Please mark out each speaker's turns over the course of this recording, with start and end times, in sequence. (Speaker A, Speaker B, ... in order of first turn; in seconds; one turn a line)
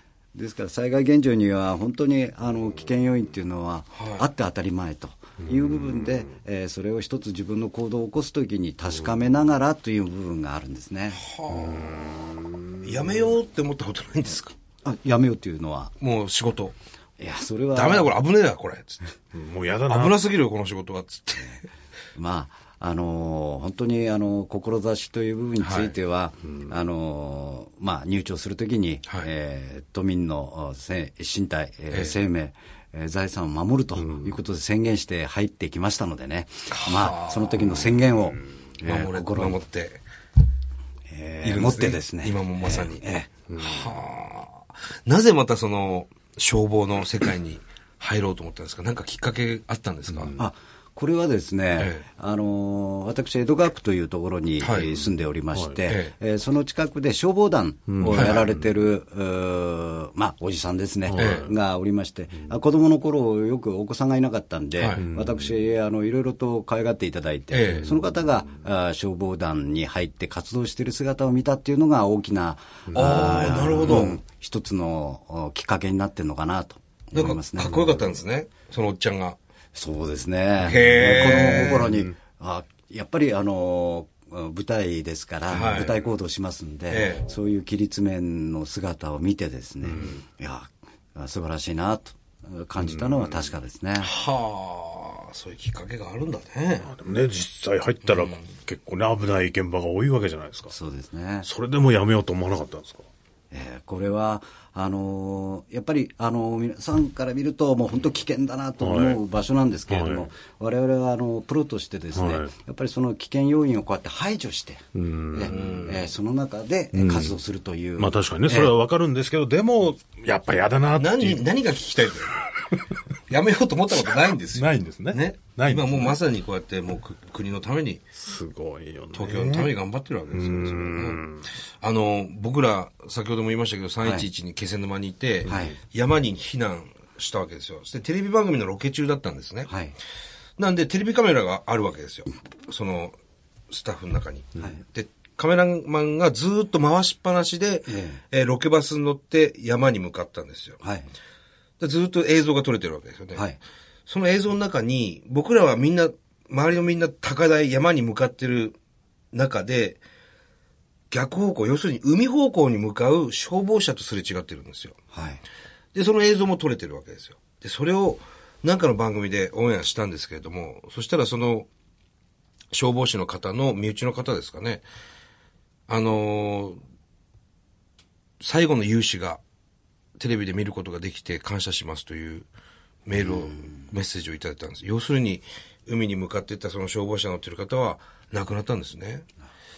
Speaker A: 0.3-11.2
Speaker B: 4.0-4.2
Speaker B: 11.1-12.0
Speaker C: 11.5-12.9
Speaker B: 12.8-14.5
Speaker A: 14.8-15.9
Speaker B: 16.0-16.8
Speaker A: 17.2-18.1
Speaker B: 17.7-19.1
Speaker C: 19.3-20.2
Speaker B: 19.9-21.6
Speaker A: 22.1-39.6
Speaker B: 25.6-25.9
Speaker B: 31.9-32.2
Speaker C: 34.0-34.4
Speaker B: 36.7-37.8
Speaker B: 38.8-40.0
Speaker A: 41.1-43.3
Speaker B: 41.4-50.3
Speaker C: 43.5-44.0
Speaker A: 50.4-78.0
Speaker B: 51.8-52.0
Speaker B: 54.6-54.9
Speaker C: 55.5-55.8
Speaker B: 55.9-56.1
Speaker C: 57.9-58.7
Speaker B: 58.1-58.4
Speaker C: 61.1-61.5
Speaker B: 61.2-61.5
Speaker B: 64.8-65.0
Speaker C: 65.0-65.5
Speaker B: 67.5-68.0
Speaker C: 72.9-73.7
Speaker B: 72.9-74.2
Speaker B: 77.1-79.4
Speaker A: 79.8-94.1
Speaker B: 80.6-81.9
Speaker C: 80.7-82.1
Speaker B: 85.5-86.0
Speaker B: 86.9-87.3
Speaker C: 89.9-90.1
Speaker C: 92.9-93.5
Speaker B: 94.0-96.9
Speaker C: 96.8-100.7
Speaker B: 98.2-98.4
Speaker A: 100.7-101.5
Speaker C: 101.4-103.1
Speaker A: 103.5-118.7
Speaker C: 108.8-109.2
Speaker C: 109.9-110.3
Speaker C: 112.1-112.5
Speaker C: 115.0-116.0
Speaker B: 115.5-116.0
Speaker C: 117.0-117.4
Speaker C: 118.0-121.5
Speaker B: 121.0-122.5
Speaker B: 123.3-128.0
Speaker C: 124.5-126.2
Speaker C: 128.1-129.7
Speaker B: 129.1-131.2
Speaker C: 130.3-131.5
Speaker B: 131.8-139.7
Speaker C: 135.4-135.8
Speaker A: 135.5-135.8
Speaker A: 139.7-139.9
Speaker B: 140.6-143.2
Speaker B: 143.7-150.8
Speaker A: 147.9-148.2
Speaker A: 150.8-151.1
Speaker B: 151.8-153.5
Speaker B: 154.1-158.8
Speaker B: 159.3-160.0
Speaker B: 161.1-165.0
Speaker A: 165.1-165.4
Speaker B: 165.9-171.7
Speaker B: 172.7-174.8
Speaker B: 175.9-176.8
Speaker B: 178.4-179.4
Speaker B: 180.2-182.5
Speaker B: 183.1-189.2
Speaker A: 183.2-183.7